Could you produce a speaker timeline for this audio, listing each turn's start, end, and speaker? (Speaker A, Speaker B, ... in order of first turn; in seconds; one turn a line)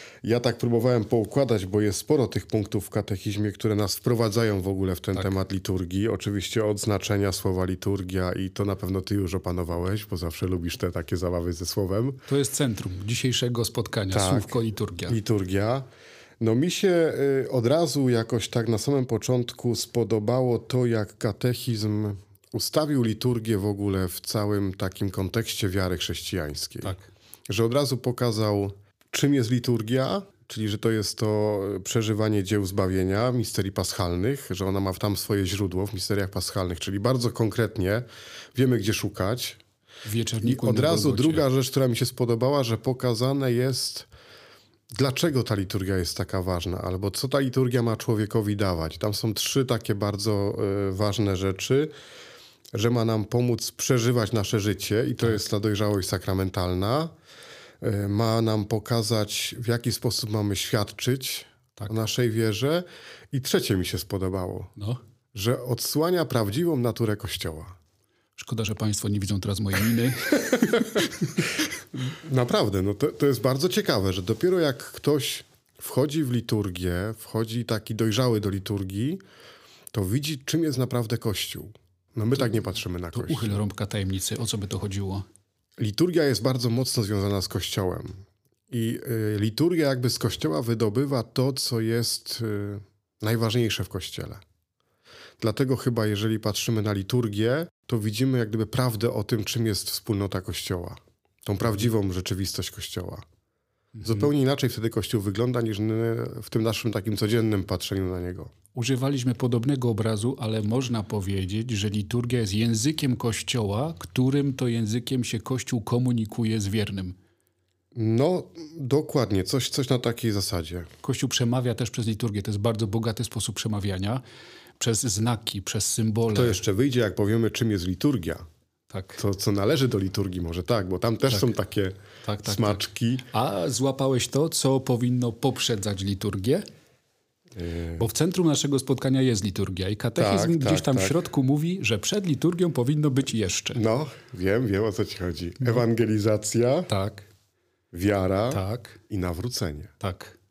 Speaker A: 0.2-12.2
Speaker B: 12.3-15.2
Speaker A: 14.1-15.9
Speaker A: 16.4-27.0
Speaker B: 26.8-27.1
Speaker A: 27.5-39.6
Speaker B: 40.0-41.4
Speaker A: 40.4-44.1
Speaker A: 44.9-51.9
Speaker A: 52.7-57.1
Speaker A: 57.8-64.7
Speaker A: 65.3-67.7
Speaker B: 68.4-71.5
Speaker A: 71.9-79.2
Speaker A: 79.9-83.6
Speaker B: 83.1-85.2
Speaker A: 85.8-94.4
Speaker A: 95.4-103.2
Speaker B: 104.0-104.3
Speaker A: 104.0-108.5
Speaker B: 108.7-117.2
Speaker A: 117.9-120.9
Speaker B: 121.0-124.2
Speaker B: 124.8-126.6
Speaker A: 126.3-128.4
Speaker B: 128.9-129.2
Speaker A: 129.2-133.2
Speaker B: 132.2-136.6
Speaker A: 137.6-138.1
Speaker B: 138.0-143.8
Speaker A: 140.2-141.2
Speaker A: 143.7-146.9
Speaker B: 146.9-147.3
Speaker A: 147.9-149.9
Speaker B: 148.5-149.0
Speaker B: 150.0-150.3